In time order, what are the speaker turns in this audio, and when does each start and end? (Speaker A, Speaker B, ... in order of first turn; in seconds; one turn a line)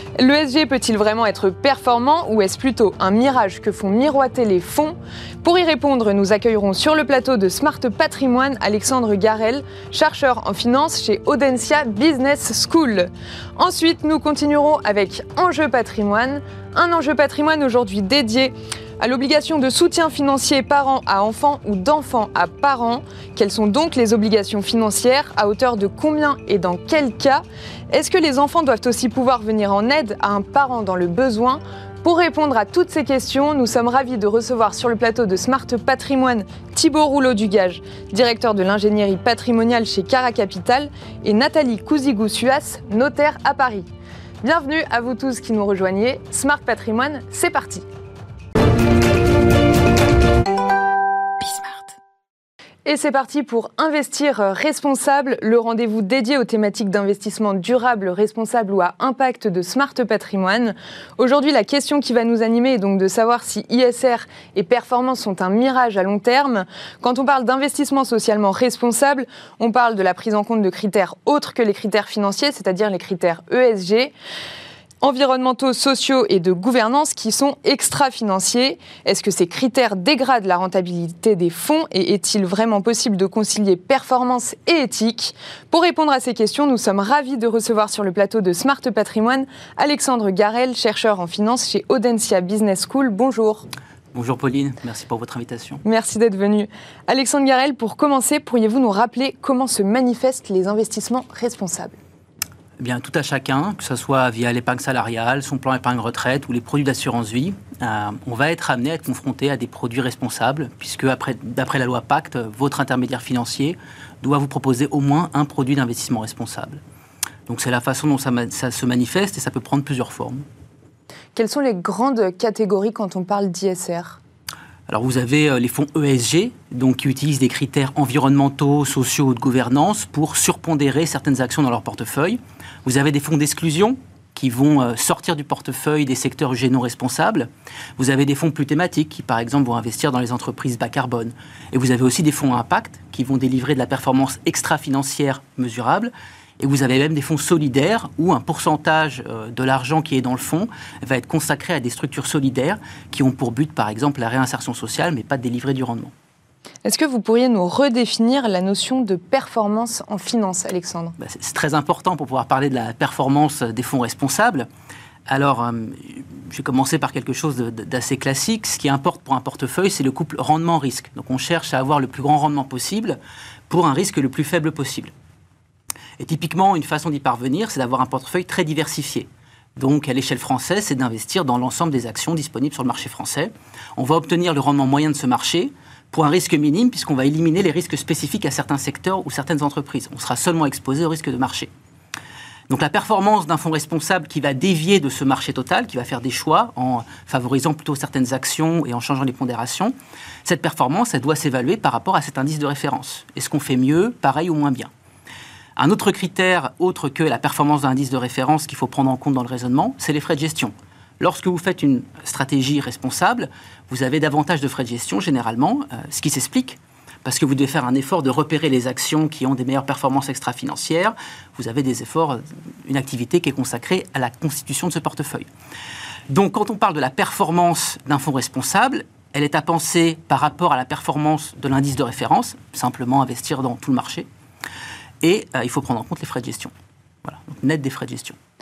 Speaker A: 0.2-43.9
Speaker A: 44.4-47.9
Speaker B: 51.5-51.7
Speaker A: 52.8-74.1
Speaker A: 75.0-93.6
Speaker B: 94.1-95.8
Speaker A: 95.8-102.0
Speaker B: 102.8-116.8
Speaker B: 117.5-120.4
Speaker A: 121.3-124.2
Speaker B: 124.9-156.1
Speaker A: 156.8-161.2
Speaker B: 161.2-164.7
Speaker B: 165.3-175.1
Speaker B: 176.2-191.7
Speaker B: 192.7-204.9
Speaker B: 205.8-225.5
Speaker B: 226.3-234.3
Speaker B: 235.2-236.7
Speaker B: 237.2-238.4